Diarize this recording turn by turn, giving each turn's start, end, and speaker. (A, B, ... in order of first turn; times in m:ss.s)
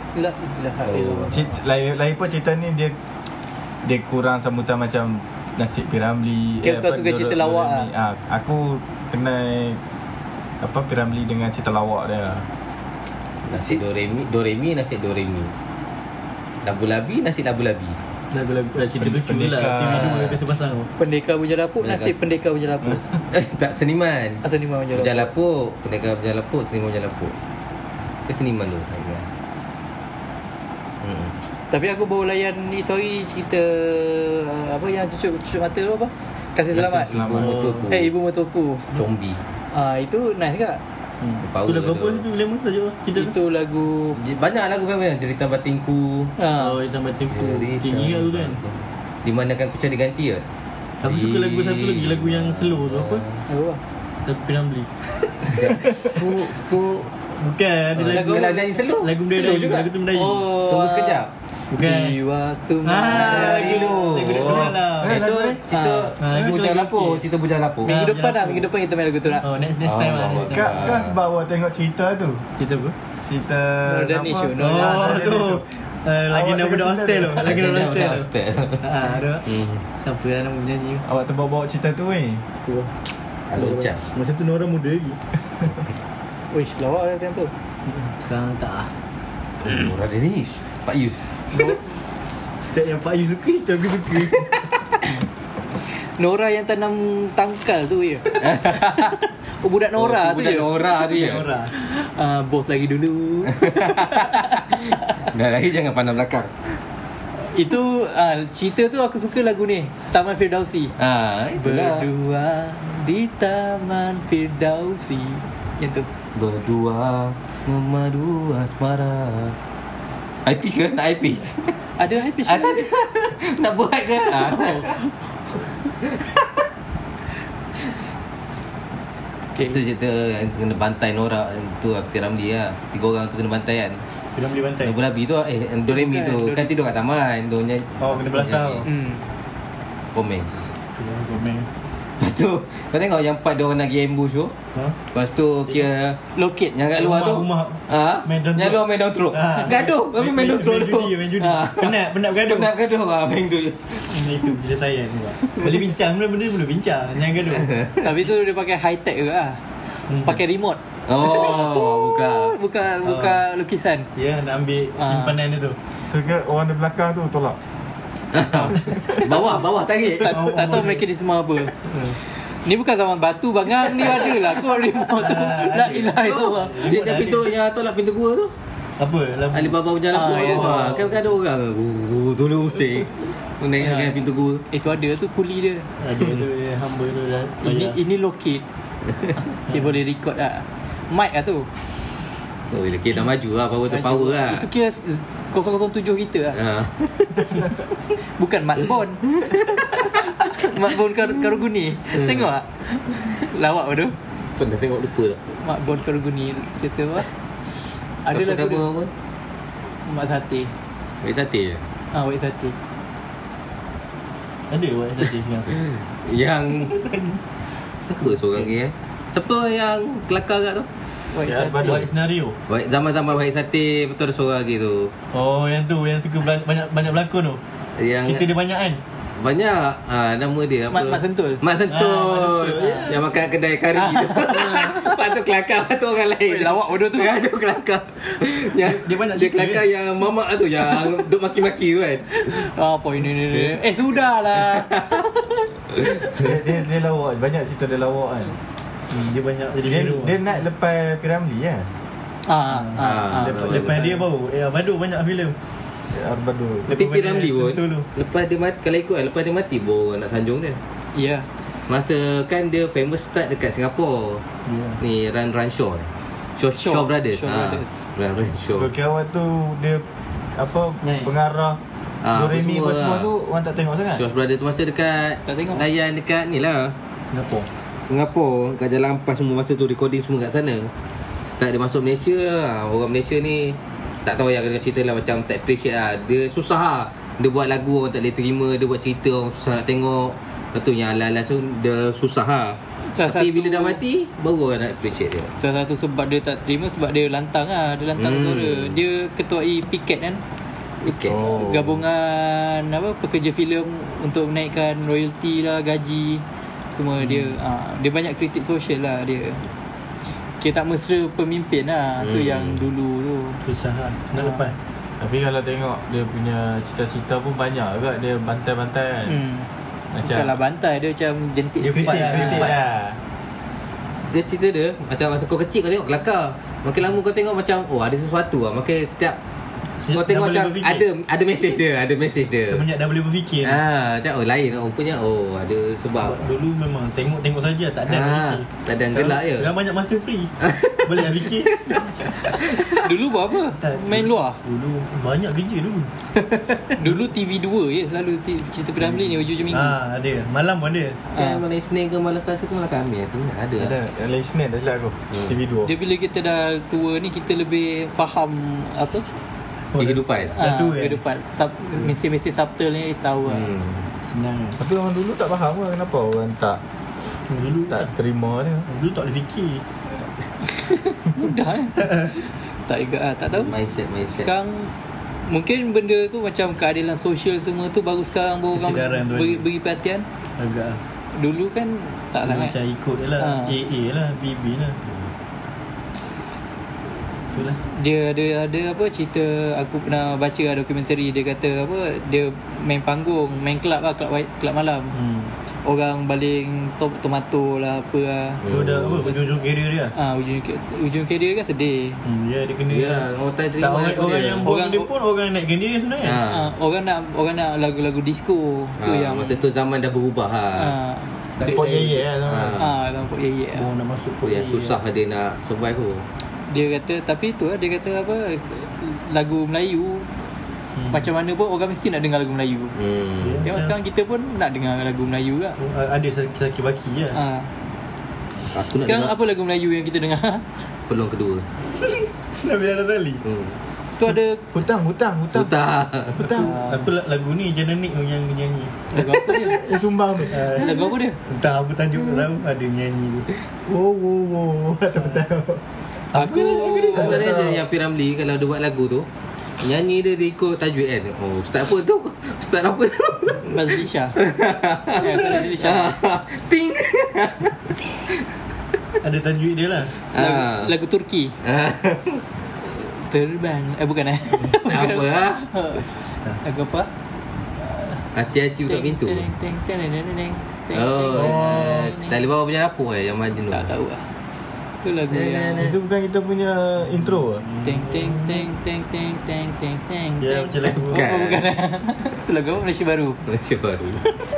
0:00.1-0:01.5 A
0:00.8-0:01.3 B
0:01.3-0:02.9 C
0:03.8-0:09.8 C
0:06.6-0:07.9 A
0:10.6-0:12.5 C
0:13.4-0:15.5 B
0:16.6-0:18.0 B
0:18.3-0:20.9 D
0:19.0-0:20.3 C
0:21.0-0:23.0 A
0:21.8-0:22.1 B
0:23.3-0:27.4 B
0:24.4-0:25.3 A
0:28.2-0:29.3 B
0:31.0-0:31.3 B
0:31.7-0:37.1 A
0:36.7-0:38.1 B
0:37.1-0:37.6 C
0:37.9-0:38.9 A
0:38.9-0:39.4 B
0:39.7-0:40.8 A
0:41.2-0:43.3 D
0:41.4-0:42.2 B
0:43.1-0:44.2 A
0:44.2-0:46.3 B
0:46.4-0:46.8 A
0:46.5-0:48.6 D
0:47.3-0:50.4 B
0:51.0-0:53.2 D
0:51.0-0:53.4 B
0:53.5-0:53.8 A
0:54.2-0:54.9 D
0:55.4-0:57.1 B
0:57.4-1:00.5 D
0:58.0-0:59.9 B
0:58.1-0:58.7 A
1:00.1-1:01.2 A
1:00.6-1:01.3 B
1:01.7-1:02.2 D
1:01.8-1:04.0 A
1:02.8-1:05.6 D
1:03.1-1:07.9 B
1:05.0-1:05.6 C
1:05.7-1:06.1 A
1:06.2-1:07.2 D
1:07.8-1:08.7 D
1:07.8-1:09.5 A
1:09.4-1:11.0 D
1:09.8-1:11.2 B
1:10.5-1:12.4 C
1:12.6-1:12.9 D
1:13.2-1:15.6 C
1:13.8-1:15.0 A
1:14.6-1:18.3 D
1:16.3-1:17.5 C
1:17.4-1:19.8 B
1:18.8-1:21.0 D
1:21.0-1:22.4 C
1:23.5-1:24.0 B
1:23.6-1:25.2 D
1:26.5-1:27.5 A
1:27.8-1:28.9 D
1:29.6-1:31.3 B
1:31.5-1:31.8 A
1:32.7-1:34.6 D
1:35.9-1:40.7 A
1:38.3-1:39.2 B
1:40.0-1:41.4 B
1:41.1-1:41.7 D
1:41.7-1:44.9 A
1:43.6-1:46.8 B
1:47.4-1:50.9 A
1:51.0-1:52.1 B
1:51.6-1:56.1 A
1:56.3-1:59.6 B
2:00.4-2:01.8 B
2:02.0-2:02.9 A
2:02.3-2:05.0 B
2:04.6-2:05.0 A
2:09.6-2:14.0 B
2:14.3-2:15.0 D
2:14.8-2:18.8 B
2:15.9-2:16.7 A
2:18.0-2:18.9 D
2:18.9-2:19.2 A
2:20.1-2:20.6 B
2:21.0-2:21.7 D
2:22.2-2:24.5 B
2:25.1-2:26.2 B
2:26.3-2:26.7 A
2:26.7-2:34.3 B
2:26.9-2:32.7 D
2:34.1-2:37.7 D
2:37.5-2:38.0 B
2:38.0-2:39.6 A
2:40.1-2:40.4 D
2:40.2-2:44.1 A
2:41.1-2:42.6 B
2:43.0-2:43.4 D
2:44.1-2:45.8 D
2:45.0-2:45.4 A
2:46.1-2:47.6 C
2:48.3-2:50.4 B
2:48.5-2:49.0 D
2:50.1-2:51.0 D
2:50.2-2:51.7 A
2:51.8-2:52.2 D
2:52.3-2:56.9 A
2:55.2-2:57.5 D
2:56.8-2:58.5 B
2:59.0-3:01.2 D
2:59.5-3:04.6 B
3:00.1-3:01.0 A
3:03.8-3:05.9 A
3:06.0-3:08.0 D
3:07.6-3:08.6 A
3:09.3-3:11.7 A
3:12.7-3:14.6 B
3:13.9-3:16.6 A
3:16.5-3:17.5 B
3:18.2-3:19.3 A
3:20.5-3:24.2 A
3:24.6-3:25.4 B
3:25.5-3:27.3 A
3:28.2-3:28.8 A
3:28.2-3:29.1 B
3:30.0-3:30.7 A
3:31.2-3:31.8 B
3:32.1-3:32.7 A
3:34.7-3:35.8 D
3:36.2-3:37.1 B
3:36.9-3:37.2 D
3:38.1-3:40.9 B
3:41.3-3:42.0 A
3:41.4-3:42.1 C
3:41.8-3:42.6 D
3:42.7-3:45.1 B
3:45.3-3:47.6 D
3:48.0-3:48.5 B
3:48.2-3:49.0 D
3:49.4-4:02.6 B
3:50.9-3:51.6 A
3:51.9-3:53.2 D
3:52.8-3:53.1 A
3:54.0-3:55.0 A
3:56.4-3:57.3 A
3:58.5-3:59.8 D
4:02.3-4:04.9 A
4:04.6-4:05.3 B
4:06.3-4:08.6 C
4:09.1-4:10.4 D
4:09.8-4:11.9 C
4:12.4-4:13.9 A
4:12.7-4:15.5 D
4:13.0-4:14.1 B
4:16.1-4:16.9 C
4:16.8-4:18.0 D
4:16.9-4:20.8 B
4:21.1-4:21.5 A
4:21.9-4:24.4 B
4:24.6-4:25.0 D
4:25.0-4:28.9 B
4:26.8-4:28.1 A
4:28.8-4:30.0 C
4:30.6-4:31.8 C
4:31.0-4:31.3 D
4:32.2-4:33.3 B
4:32.3-4:34.2 C
4:34.1-4:36.9 B
4:35.4-4:35.8 A
4:37.3-4:37.7 D
4:38.0-4:40.9 B
4:41.4-4:55.5 B
4:53.0-4:54.0 A
4:55.6-5:00.4 A
4:58.2-4:59.0 B
5:01.0-5:01.4 B
5:01.3-5:02.0 C
5:01.3-5:06.4 A
5:06.9-5:09.6 A
5:10.6-5:13.6 A
5:12.2-5:12.8 B
5:13.6-5:14.8 D
5:14.4-5:14.7 A
5:15.2-5:19.4 C
5:19.2-5:19.7 A
5:20.1-5:20.6 C
5:20.2-5:22.7 A
5:21.8-5:22.8 D
5:22.0-5:23.2 C
5:24.3-5:29.4 B
5:30.0-5:31.0 D
5:30.1-5:32.8 B
5:32.6-5:33.8 D
5:33.6-5:36.4 B
5:36.2-5:42.8 D
5:38.1-5:39.7 B
5:40.7-5:42.0 B
5:43.0-5:44.6 A
5:43.8-5:46.1 D
5:47.0-5:49.9 A
5:49.7-5:51.2 D
5:51.3-5:51.6 A
5:51.3-5:53.9 B
5:53.8-5:55.9 C
5:55.8-5:59.2 A
5:59.9-6:01.2 D
5:59.9-6:00.5 B
6:00.6-6:03.7 A
6:03.5-6:04.0 B
6:04.2-6:04.8 D
6:04.8-6:06.8 C
6:07.5-6:08.1 D
6:07.9-6:08.9 C
6:08.9-6:09.8 D
6:10.7-6:13.7 A
6:13.6-6:14.5 B
6:14.4-6:14.9 A
6:15.4-6:20.3 A
6:18.7-6:19.6 D
6:20.6-6:21.0 D
6:21.3-6:22.7 A
6:22.4-6:25.0 D
6:23.4-6:23.7 A
6:27.5-6:27.8 D
6:27.8-6:35.1 A
6:35.1-6:35.5 D
6:35.8-6:38.6 A
6:38.6-6:39.2 B
6:38.7-6:40.1 D
6:40.1-6:42.2 A
6:42.2-6:43.3 D
6:42.9-6:44.7 B
6:43.8-6:46.4 D
6:44.6-6:45.1 A
6:46.2-6:46.7 B
6:46.5-6:49.6 A
6:49.0-6:50.9 B
6:50.8-6:51.3 A
6:51.6-6:52.3 D
6:51.6-6:52.8 C
6:52.5-6:52.9 B
6:52.8-6:53.8 A
6:53.7-6:55.0 D
6:54.4-6:56.2 B
6:56.7-7:00.3 A
7:01.1-7:02.9 A
7:02.9-7:03.7 B
7:03.4-7:04.0 D
7:03.6-7:05.8 A
7:05.8-7:07.4 D
7:07.3-7:07.7 A
7:08.7-7:09.3 B
7:08.9-7:10.6 A
7:11.1-7:11.6 B
7:12.1-7:13.4 D
7:13.4-7:13.8 B
7:14.2-7:14.6 A
7:14.7-7:15.7 C
7:15.5-7:16.5 B
7:16.4-7:16.8 C
7:16.4-7:19.0 D
7:16.6-7:17.0 A
7:19.1-7:19.9 A
7:19.6-7:20.7 C
7:20.5-7:23.5 D
7:20.7-7:21.4 A
7:23.8-7:25.8 C
7:26.3-7:27.8 D
7:26.3-7:27.3 A
7:27.1-7:29.3 B
7:27.1-7:27.7 C
7:29.8-7:37.8 B
7:33.6-7:34.4 A
7:35.2-7:36.2 A
7:39.2-7:40.1 D
7:40.3-7:40.9 B
7:40.3-7:41.6 A
7:41.6-7:42.4 B
7:42.9-7:47.1 A
7:44.7-7:45.6 B
7:47.8-7:48.2 A
7:48.3-7:49.5 B
7:48.9-7:52.3 A
7:50.9-7:53.9 B
7:51.3-7:52.0 D
7:53.7-7:54.3 A
7:55.0-7:55.9 A
7:55.3-7:56.0 B
7:55.8-7:57.6 C
7:57.6-7:58.6 D
7:57.8-8:03.4 A
8:00.4-8:01.2 D
8:01.1-8:01.6 B
8:03.5-8:04.3 B